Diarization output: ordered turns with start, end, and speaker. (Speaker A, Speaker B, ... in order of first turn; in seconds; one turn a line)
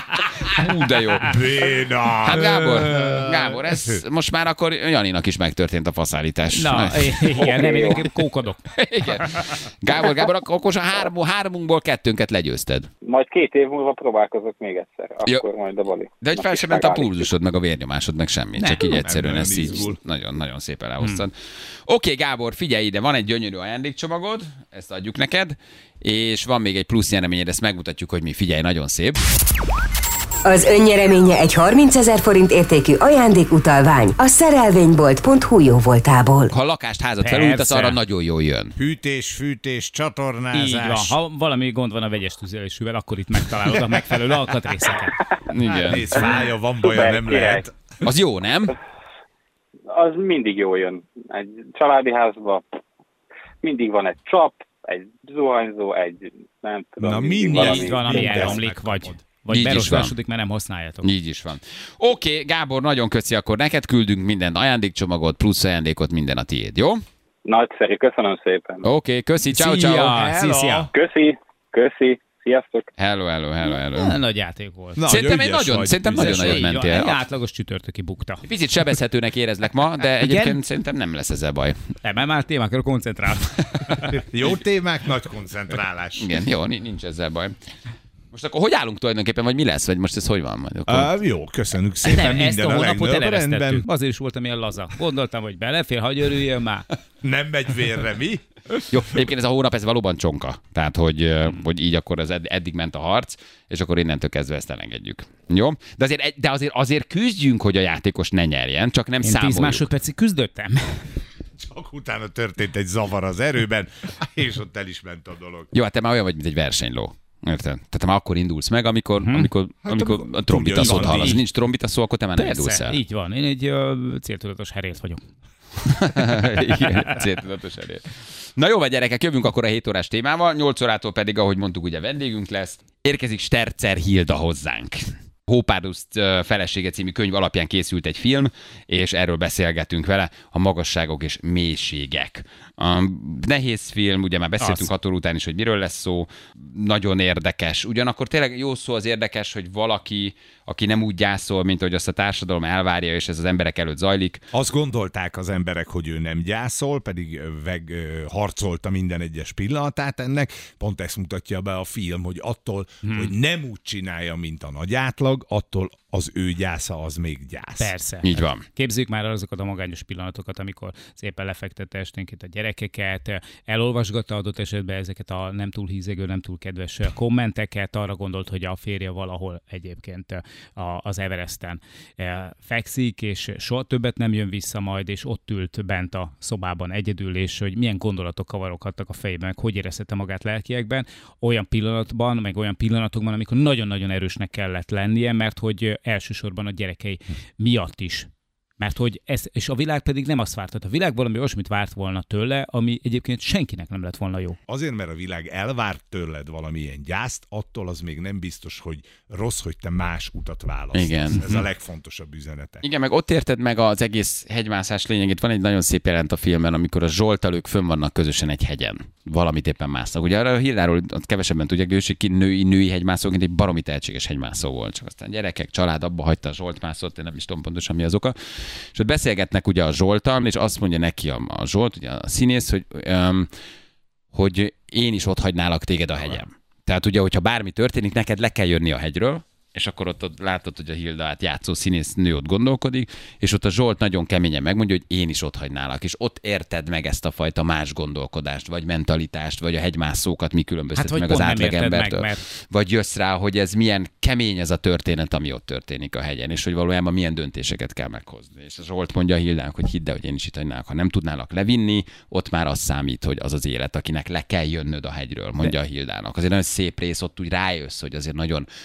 Speaker A: 0.4-1.4
Speaker B: 0.5-1.3
Speaker C: 1.2-4.0
Speaker A: 2.2-7.5
Speaker B: 2.4-3.2
Speaker B: 6.5-8.6
Speaker D: 7.3-8.0
Speaker A: 8.7-12.9
Speaker B: 9.2-9.5
Speaker D: 13.0-17.3
Speaker A: 16.2-21.3
Speaker B: 18.6-19.0
Speaker C: 18.8-20.0
Speaker A: 21.9-29.2
Speaker E: 30.4-36.5
Speaker A: 36.5-38.8
Speaker B: 37.2-38.0
Speaker C: 38.8-41.2
Speaker B: 40.5-45.2
Speaker C: 43.6-44.0
Speaker A: 45.5-46.3
Speaker C: 45.7-47.7
Speaker D: 46.2-47.6
Speaker A: 48.0-48.8
Speaker D: 49.9-52.6
Speaker D: 53.6-58.6
Speaker C: 57.0-59.2
Speaker B: 57.5-61.1
Speaker A: 59.5-60.1
Speaker A: 61.0-67.0
Speaker D: 67.4-68.8
Speaker A: 68.8-70.2
Speaker B: 69.5-70.9
Speaker C: 69.9-70.9
Speaker D: 70.9-72.9
Speaker A: 73.0-74.2
Speaker B: 73.9-75.0
Speaker C: 75.0-76.7
Speaker A: 75.0-77.2
Speaker B: 76.1-78.5
Speaker A: 78.4-81.8
Speaker B: 80.2-80.6
Speaker B: 82.0-84.2
Speaker C: 84.1-86.3
Speaker A: 86.2-87.5
Speaker A: 88.3-91.2
Speaker C: 90.9-93.8
Speaker B: 92.0-96.8
Speaker C: 97.2-98.4
Speaker A: 98.9-109.9
Speaker B: 109.2-111.0
Speaker C: 111.6-115.7
Speaker A: 115.7-123.0
Speaker B: 119.2-119.5
Speaker C: 119.8-121.4
Speaker B: 120.7-121.4
Speaker B: 122.3-125.2
Speaker A: 125.8-154.4
Speaker B: 144.6-144.9
Speaker C: 154.5-167.9
Speaker B: 163.0-163.3
Speaker B: 167.8-204.6
Speaker A: 168.2-168.6
Speaker C: 204.7-212.8
Speaker A: 210.9-211.6
Speaker A: 212.8-228.3
Speaker A: 228.9-233.5
Speaker A: 234.3-268.7
Speaker B: 250.9-252.4